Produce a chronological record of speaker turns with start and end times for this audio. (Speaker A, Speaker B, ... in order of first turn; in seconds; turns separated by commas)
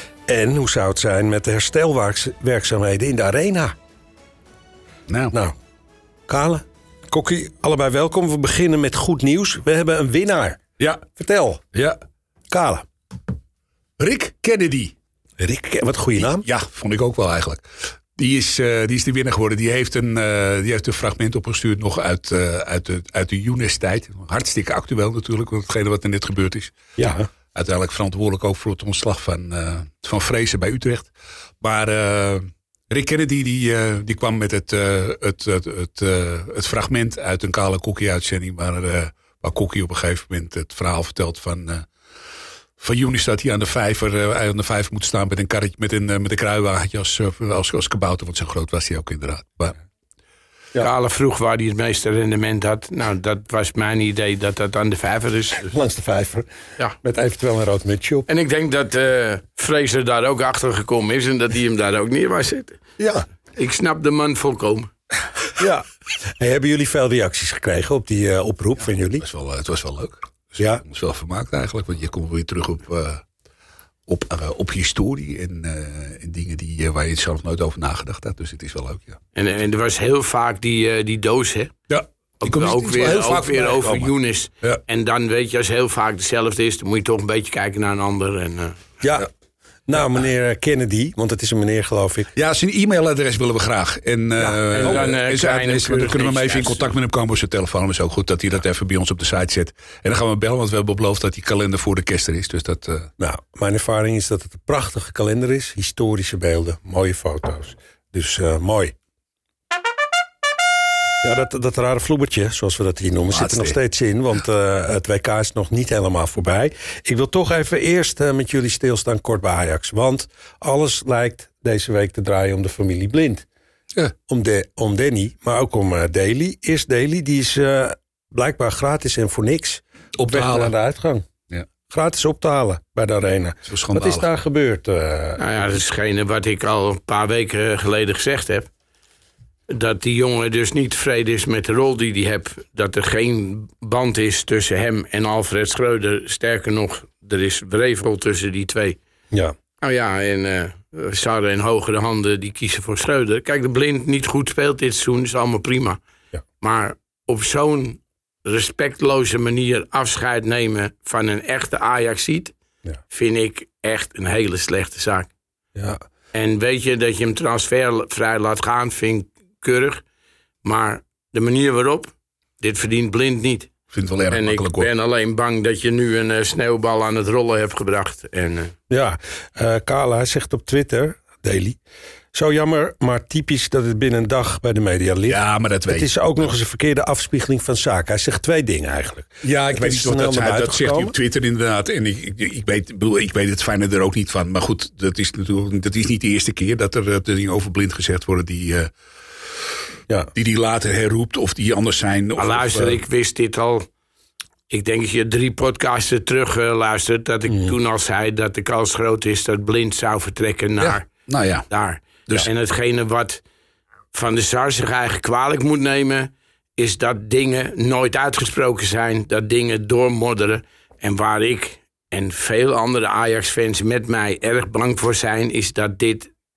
Speaker A: 0.3-3.7, Speaker B: 5.1-5.3, Speaker A: 6.3-11.7, Speaker A: 12.5-12.8, Speaker B: 14.0-14.9, Speaker A: 15.4-16.4, Speaker B: 16.2-17.6, Speaker B: 18.1-26.7, Speaker A: 27.0-27.3, Speaker B: 27.5-41.9, Speaker B: 42.8-49.8, Speaker C: 50.8-55.5, Speaker A: 55.6-56.5, Speaker A: 57.0-58.3, Speaker C: 58.3-62.8, Speaker A: 63.0-63.2, Speaker C: 63.5-64.9, Speaker A: 65.6-65.8, Speaker A: 66.4-69.2, Speaker B: 69.2-73.2, Speaker A: 70.6-70.8, Speaker B: 74.1-79.2, Speaker C: 79.3-81.7, Speaker B: 81.9-84.8, Speaker C: 82.4-88.7, Speaker A: 89.0-89.3, Speaker A: 89.9-92.3, Speaker B: 92.3-103.1, Speaker A: 94.4-94.8, Speaker C: 94.7-96.8, Speaker A: 103.2-108.9, Speaker A: 111.2-123.5, Speaker B: 113.3-113.8, Speaker A: 124.3-131.2, Speaker B: 130.2-130.7, Speaker A: 131.9-135.4, Speaker B: 133.7-134.3, Speaker C: 135.4-138.7, Speaker C: 139.7-149.0, Speaker C: 149.8-156.0, Speaker C: 156.6-162.5, Speaker C: 163.1-165.3, Speaker C: 166.3-170.0, Speaker C: 170.6-173.7, Speaker B: 173.9-174.9, Speaker C: 174.3-178.7, Speaker A: 178.9-181.8, Speaker A: 182.3-191.1, Speaker B: 185.3-186.1, Speaker B: 189.4-198.9, Speaker B: 200.3-203.0, Speaker C: 202.4-203.8, Speaker C: 204.7-211.1, Speaker A: 207.5-207.8, Speaker B: 210.8-211.7, Speaker C: 211.7-213.4, Speaker C: 214.1-226.3